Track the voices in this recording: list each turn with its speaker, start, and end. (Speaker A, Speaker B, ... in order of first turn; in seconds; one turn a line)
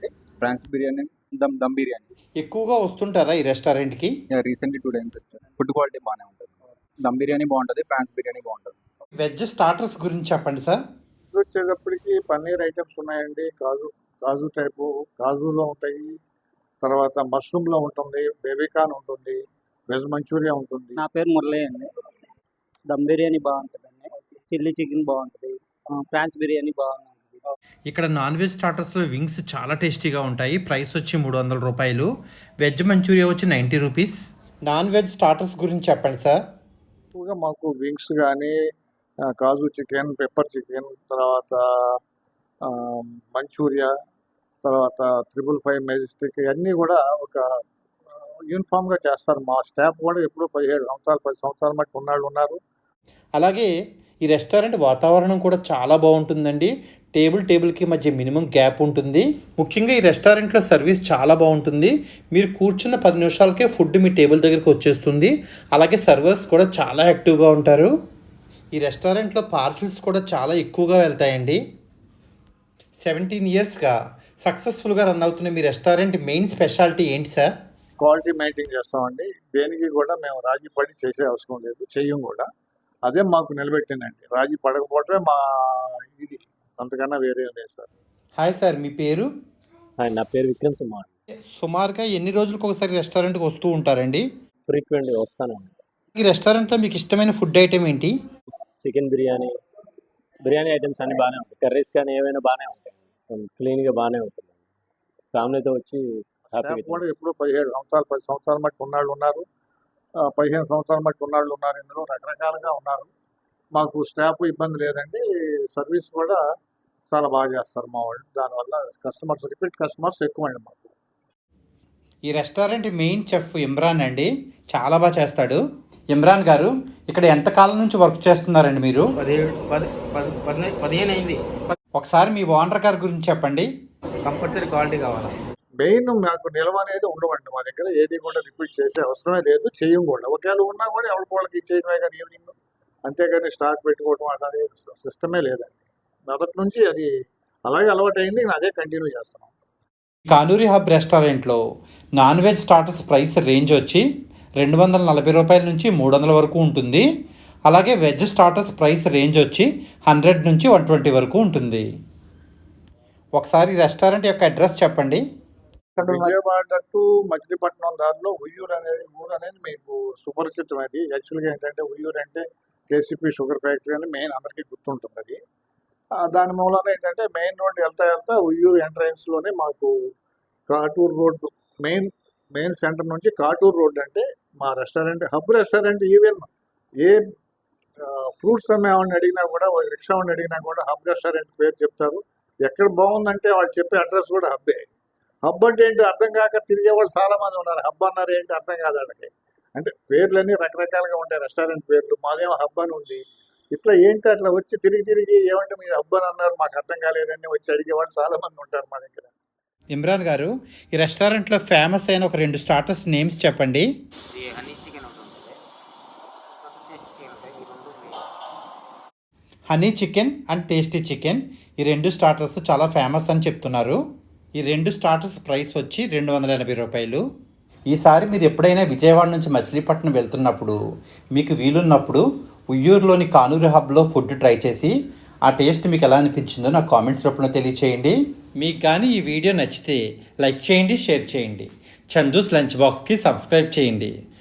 Speaker A: 0.4-2.1
Speaker B: 2.4-4.1
Speaker A: 4.3-8.7
Speaker B: 9.2-10.8
Speaker C: 11.3-16.1
Speaker C: 16.8-21.0
Speaker D: 20.9-21.9
Speaker D: 22.9-27.4
Speaker B: 27.9-32.1
Speaker B: 32.6-34.1
Speaker B: 34.6-36.4
Speaker C: 37.1-38.5
Speaker C: 39.4-42.0
Speaker C: 42.6-43.9
Speaker C: 44.6-47.4
Speaker C: 48.5-52.6
Speaker B: 53.4-53.7
Speaker B: 54.2-67.9
Speaker B: 68.8-71.6
Speaker B: 73.0-77.5
Speaker C: 78.0-82.5
Speaker C: 83.0-87.9
Speaker B: 88.4-89.3
Speaker E: 90.0-91.1
Speaker B: 91.5-94.2
Speaker E: 94.7-95.8
Speaker B: 96.2-98.1
Speaker E: 98.5-99.5
Speaker E: 100.5-104.6
Speaker E: 105.3-107.0
Speaker C: 106.6-109.5
Speaker C: 110.3-113.1
Speaker C: 113.8-116.4
Speaker C: 117.1-120.9
Speaker B: 122.3-125.6
Speaker B: 126.1-129.1
Speaker F: 129.2-131.3
Speaker B: 132.0-133.7
Speaker F: 134.3-135.3
Speaker C: 135.8-142.5
Speaker C: 143.1-147.1
Speaker C: 147.7-149.5
Speaker B: 150.3-151.6
Speaker B: 152.2-154.0
Speaker B: 154.6-157.1
Speaker B: 157.7-161.8
Speaker B: 163.4-165.2
Speaker C: 166.0-175.4
Speaker C: 176.2-179.9
Speaker C: 180.7-186.5
Speaker C: 188.1-194.8
Speaker C: 195.5-203.2
Speaker C: 203.7-209.3
Speaker B: 209.9-213.8
Speaker F: 214.3-215.5
Speaker F: 216.7-218.1
Speaker B: 219.7-224.0
Speaker B: 224.6-227.2
Speaker B: 227.9-230.8
Speaker B: 231.3-234.9
Speaker B: 235.4-244.1